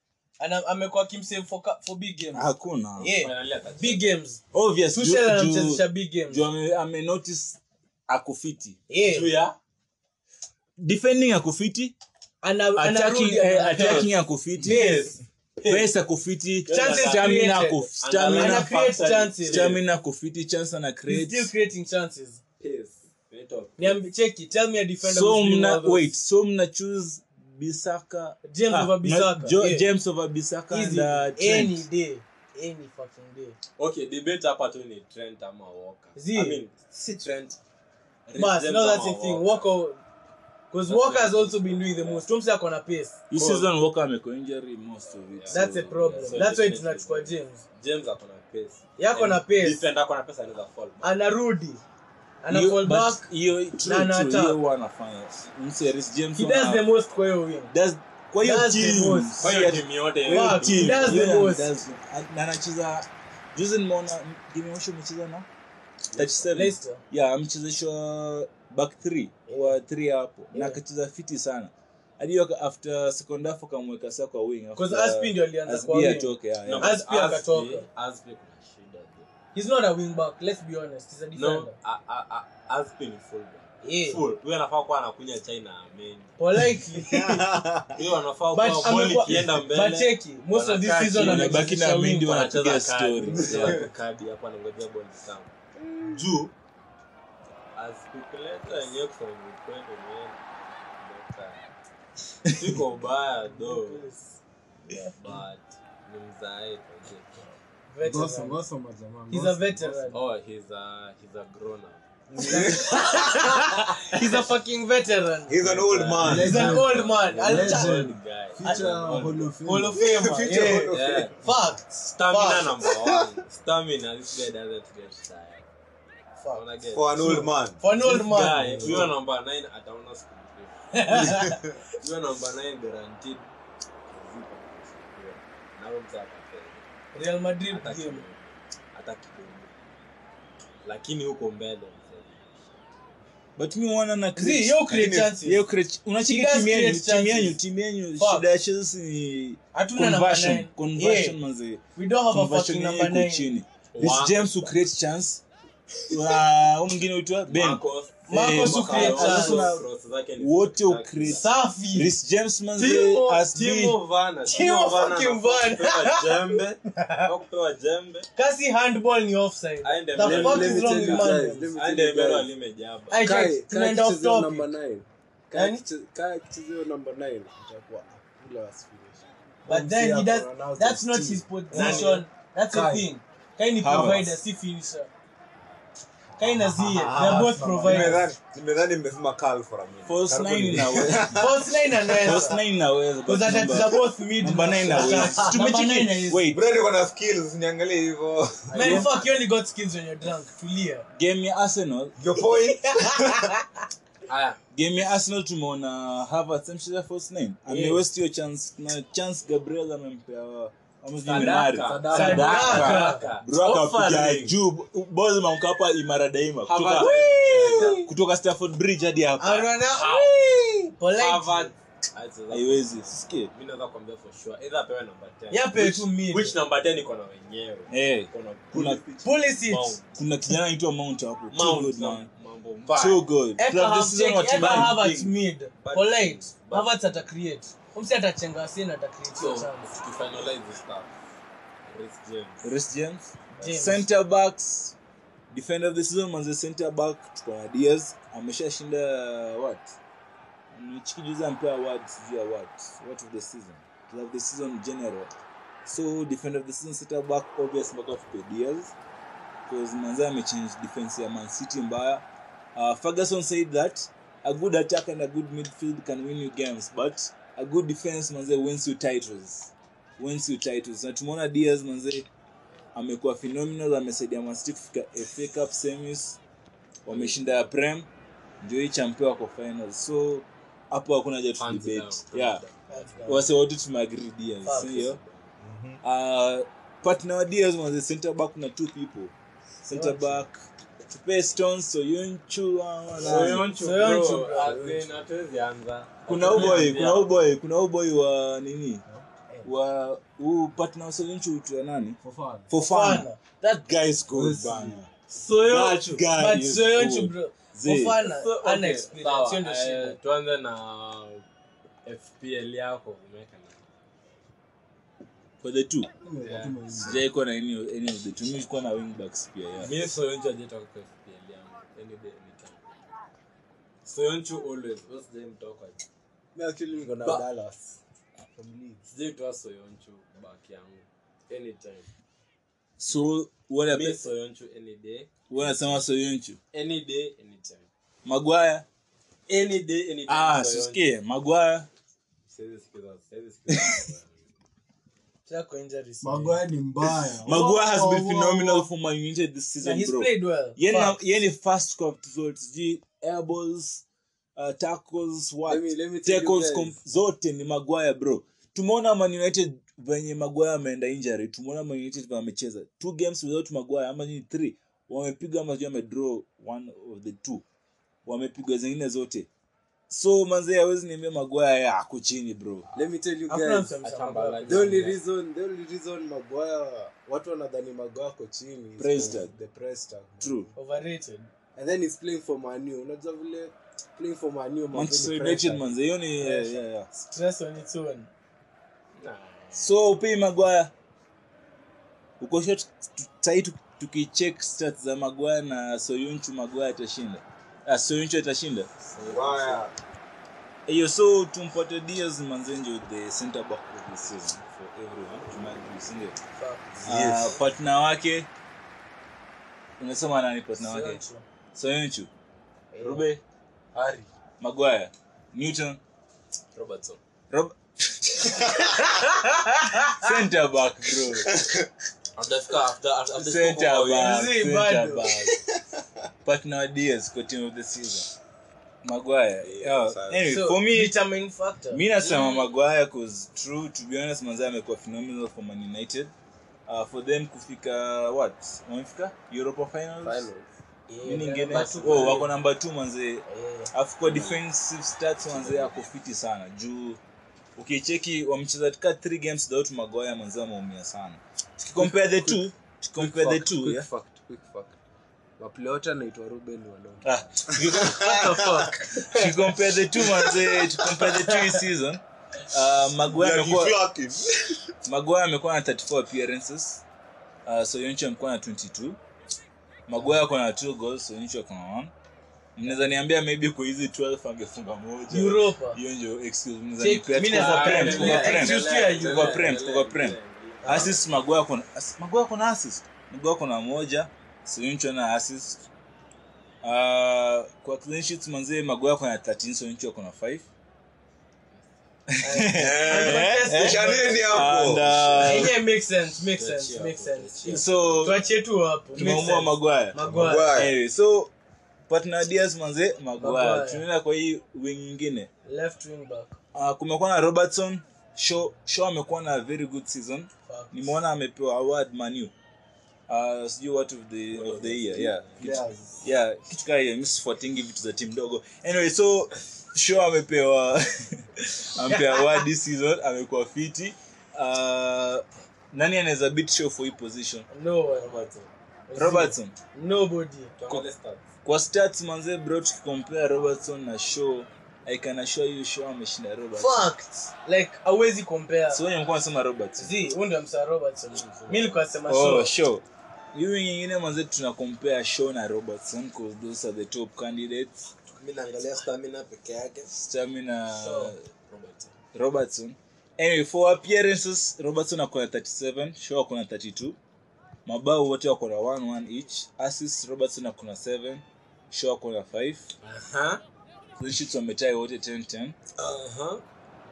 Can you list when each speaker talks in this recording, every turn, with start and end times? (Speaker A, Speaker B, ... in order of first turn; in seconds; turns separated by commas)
Speaker A: 0.4-4.4, Speaker B: 2.3-3.1, Speaker C: 3.2-4.2, Speaker B: 4.5-8.8, Speaker A: 4.9-6.4, Speaker A: 8.9-9.3, Speaker C: 9.0-9.6, Speaker B: 10.8-11.9, Speaker A: 12.4-14.1, Speaker B: 12.8-14.8, Speaker C: 14.6-15.9, Speaker A: 14.6-15.2, Speaker B: 15.7-21.5, Speaker C: 16.6-17.3, Speaker A: 16.7-19.7, Speaker C: 18.0-19.8, Speaker A: 21.1-22.4, Speaker C: 22.6-24.0, Speaker A: 23.8-26.1, Speaker B: 25.0-31.9, Speaker A: 28.4-29.9, Speaker A: 30.7-33.6, Speaker C: 33.8-37.6, Speaker A: 36.1-36.6, Speaker C: 38.3-39.7, Speaker A: 38.4-40.0, Speaker A: 40.7-43.2, Speaker C: 40.9-42.2, Speaker B: 43.3-46.4, Speaker C: 43.3-43.7, Speaker C: 45.3-51.1, Speaker A: 45.5-47.6, Speaker A: 49.0-49.8, Speaker A: 51.0-51.8, Speaker A: 52.4-53.2, Speaker B: 52.5-56.9, Speaker A: 53.8-54.6, Speaker A: 56.4-57.7, Speaker B: 57.7-65.5, Speaker A: 58.4-59.5, Speaker C: 59.4-61.3, Speaker A: 60.3-61.7, Speaker C: 66.1-66.5, Speaker B: 66.1-77.0, Speaker A: 66.5-67.0, Speaker A: 69.5-69.8, Speaker A: 70.5-70.8, Speaker A: 74.7-77.8, Speaker C: 76.6-79.3, Speaker A: 79.5-81.7, Speaker C: 81.3-86.3, Speaker A: 83.8-84.2, Speaker A: 86.4-87.4, Speaker D: 87.0-87.9, Speaker C: 87.9-91.7, Speaker A: 88.5-92.4, Speaker B: 91.1-93.8, Speaker C: 92.2-95.5, Speaker E: 95.8-96.1, Speaker C: 96.0-96.5, Speaker C: 97.7-101.7, Speaker C: 102.5-104.0, Speaker A: 103.4-105.2, Speaker C: 105.2-107.5, Speaker A: 107.9-108.6, Speaker E: 108.0-110.2, Speaker A: 109.3-110.2, Speaker C: 110.1-112.0, Speaker E: 112.3-112.9, Speaker A: 112.4-115.6, Speaker D: 112.4-113.0, Speaker C: 114.1-114.4, Speaker D: 115.5-116.8, Speaker C: 115.6-119.5, Speaker E: 116.2-121.5, Speaker A: 116.4-118.0, Speaker A: 118.6-122.7, Speaker D: 120.3-121.0, Speaker C: 120.9-121.3, Speaker C: 121.9-125.7, Speaker A: 126.4-129.1, Speaker C: 126.5-127.4, Speaker D: 126.9-127.8, Speaker C: 128.0-133.5, Speaker E: 128.8-129.1, Speaker A: 130.9-131.6, Speaker C: 134.1-136.8, Speaker A: 137.1-138.2, Speaker C: 137.7-139.7, Speaker C: 140.8-142.6, Speaker B: 143.6-155.4, Speaker A: 144.3-145.6, Speaker A: 146.2-147.6, Speaker A: 148.2-148.5, Speaker A: 149.7-151.4, Speaker A: 151.9-153.5, Speaker C: 153.9-154.8, Speaker B: 156.1-159.8, Speaker C: 157.5-161.5, Speaker A: 158.3-159.6, Speaker B: 160.4-164.0, Speaker A: 161.3-162.1, Speaker C: 162.8-168.3, Speaker A: 164.5-167.3, Speaker A: 168.3-171.7, Speaker C: 169.8-173.3, Speaker E: 170.2-172.5, Speaker A: 173.1-174.7, Speaker E: 173.2-183.1, Speaker A: 175.5-175.8, Speaker A: 179.7-185.1, Speaker C: 181.7-182.2, Speaker B: 183.8-184.4, Speaker A: 186.4-188.2, Speaker D: 186.8-191.7, Speaker E: 187.0-188.3, Speaker B: 190.1-191.4, Speaker A: 191.3-192.6, Speaker B: 192.2-196.6, Speaker A: 193.2-196.4, Speaker D: 196.5-199.0, Speaker A: 198.7-201.1, Speaker E: 198.7-199.2, Speaker B: 201.1-202.2, Speaker D: 202.2-203.5, Speaker A: 202.8-203.6, Speaker C: 204.3-204.6, Speaker B: 204.7-219.7, Speaker C: 207.7-207.9, Speaker C: 211.2-214.6, Speaker E: 211.8-212.8, Speaker A: 212.1-213.2, Speaker C: 216.7-218.1, Speaker A: 217.0-218.0, Speaker A: 219.4-221.7, Speaker C: 219.9-220.6, Speaker C: 221.1-230.0, Speaker B: 222.5-223.5, Speaker A: 225.5-226.6, Speaker B: 227.9-229.0, Speaker A: 229.2-230.0, Speaker B: 230.1-232.3, Speaker C: 231.5-233.3, Speaker B: 232.9-235.3, Speaker A: 233.6-239.9, Speaker C: 235.8-237.2, Speaker C: 239.3-241.1, Speaker C: 241.8-242.8, Speaker B: 242.6-244.9, Speaker A: 243.5-244.0, Speaker B: 245.5-249.9, Speaker B: 250.7-255.3, Speaker B: 255.8-258.9, Speaker B: 259.7-262.2, Speaker B: 262.7-272.3, Speaker B: 272.9-276.4, Speaker B: 277.0-278.1, Speaker C: 277.1-277.7, Speaker B: 278.6-282.6, Speaker C: 281.6-283.4, Speaker A: 282.9-283.5, Speaker B: 283.3-285.2, Speaker C: 284.6-285.5, Speaker A: 284.6-284.9, Speaker D: 285.6-286.0, Speaker B: 286.0-293.7, Speaker A: 289.9-290.4, Speaker C: 293.2-297.5, Speaker E: 293.2-293.6, Speaker A: 293.7-294.8, Speaker E: 294.5-295.2, Speaker B: 296.3-299.0, Speaker B: 299.6-302.2, Speaker E: 302.2-302.7, Speaker B: 302.7-308.2, Speaker A: 302.8-303.4, Speaker E: 304.3-305.0, Speaker C: 305.3-306.2, Speaker A: 306.4-310.2, Speaker C: 308.2-311.4, Speaker C: 312.0-314.0, Speaker B: 315.6-316.1, Speaker E: 316.2-317.2, Speaker C: 316.4-316.8, Speaker B: 316.9-319.9, Speaker C: 319.8-322.9, Speaker C: 324.0-326.0, Speaker E: 326.5-328.0, Speaker C: 327.0-327.4, Speaker E: 328.5-329.1, Speaker C: 329.1-332.1, Speaker B: 333.0-334.2, Speaker C: 333.9-335.9, Speaker B: 335.5-336.6, Speaker C: 336.7-337.9, Speaker B: 338.2-338.9, Speaker C: 339.5-341.0, Speaker B: 340.3-341.9, Speaker C: 342.5-344.4, Speaker B: 343.7-344.1, Speaker A: 345.4-346.6, Speaker E: 346.2-348.9, Speaker B: 347.4-354.0, Speaker A: 349.8-351.2, Speaker B: 354.6-367.6, Speaker E: 355.6-357.0, Speaker B: 368.2-369.5, Speaker B: 370.1-372.9, Speaker E: 372.9-374.0, Speaker A: 373.5-374.9, Speaker C: 374.0-375.2, Speaker E: 374.6-380.7, Speaker B: 379.0-379.5, Speaker B: 380.4-380.7, Speaker A: 380.7-381.5, Speaker E: 381.8-385.9, Speaker B: 384.9-387.1, Speaker A: 386.4-388.3, Speaker C: 389.1-389.9, Speaker B: 389.7-390.9, Speaker B: 392.4-398.9, Speaker C: 399.1-399.9, Speaker E: 399.2-399.7, Speaker D: 399.3-399.9, Speaker B: 400.9-406.4, Speaker A: 406.6-406.8, Speaker C: 406.9-407.6, Speaker B: 407.0-408.5, Speaker B: 410.0-411.2, Speaker A: 410.8-411.4, Speaker B: 411.7-412.3, Speaker B: 413.0-413.4, Speaker C: 413.9-414.3, Speaker B: 414.6-416.0, Speaker C: 416.7-417.2, Speaker B: 417.5-418.6, Speaker A: 419.0-420.3, Speaker B: 420.1-421.5, Speaker D: 421.5-421.7, Speaker C: 422.4-424.4, Speaker B: 423.3-425.6, Speaker A: 424.2-425.3, Speaker B: 426.4-428.3, Speaker B: 429.0-431.1, Speaker A: 430.4-432.0, Speaker B: 431.9-436.3, Speaker C: 432.2-432.7, Speaker B: 436.9-440.5, Speaker E: 440.2-440.6, Speaker A: 441.1-442.5, Speaker B: 441.2-447.2, Speaker C: 441.7-442.4, Speaker A: 443.5-443.9, Speaker C: 444.2-444.6, Speaker C: 445.5-445.9, Speaker B: 447.8-454.1, Speaker E: 452.0-452.6, Speaker E: 453.1-455.0, Speaker E: 455.6-457.8, Speaker B: 457.2-458.3, Speaker A: 458.0-459.4, Speaker D: 458.0-458.5, Speaker B: 459.3-464.0, Speaker A: 461.3-461.8, Speaker D: 463.3-464.7, Speaker B: 465.1-467.0, Speaker B: 467.6-469.2, Speaker B: 470.1-472.1, Speaker B: 472.8-485.9, Speaker A: 472.9-473.1, Speaker A: 475.3-476.0, Speaker A: 477.0-479.7, Speaker C: 477.5-481.2, Speaker E: 478.6-479.7, Speaker A: 480.8-481.1, Speaker B: 486.8-490.6, Speaker B: 492.3-495.7, Speaker A: 492.4-494.6, Speaker D: 492.7-495.6, Speaker A: 495.4-500.8, Speaker C: 496.6-498.4, Speaker B: 497.6-498.4, Speaker B: 499.1-501.5, Speaker D: 500.2-500.9, Speaker B: 502.1-505.5, Speaker A: 503.4-504.0, Speaker A: 505.6-506.6, Speaker B: 506.7-512.5, Speaker A: 510.7-511.2, Speaker B: 513.3-527.7, Speaker C: 514.5-515.7, Speaker E: 515.6-516.2, Speaker A: 522.1-522.6, Speaker A: 527.7-528.5, Speaker C: 528.1-528.7, Speaker A: 529.1-530.7, Speaker B: 529.1-529.7, Speaker C: 530.8-531.4, Speaker B: 531.6-537.1, Speaker A: 536.8-539.0, Speaker B: 538.9-540.3, Speaker A: 540.0-542.7, Speaker C: 541.3-542.0, Speaker B: 542.3-548.1, Speaker C: 548.3-550.1, Speaker B: 550.1-551.4, Speaker A: 551.0-551.3, Speaker C: 551.7-552.1, Speaker B: 552.3-557.2, Speaker B: 557.8-562.9, Speaker C: 563.0-563.6, Speaker B: 564.2-565.8, Speaker C: 566.0-566.6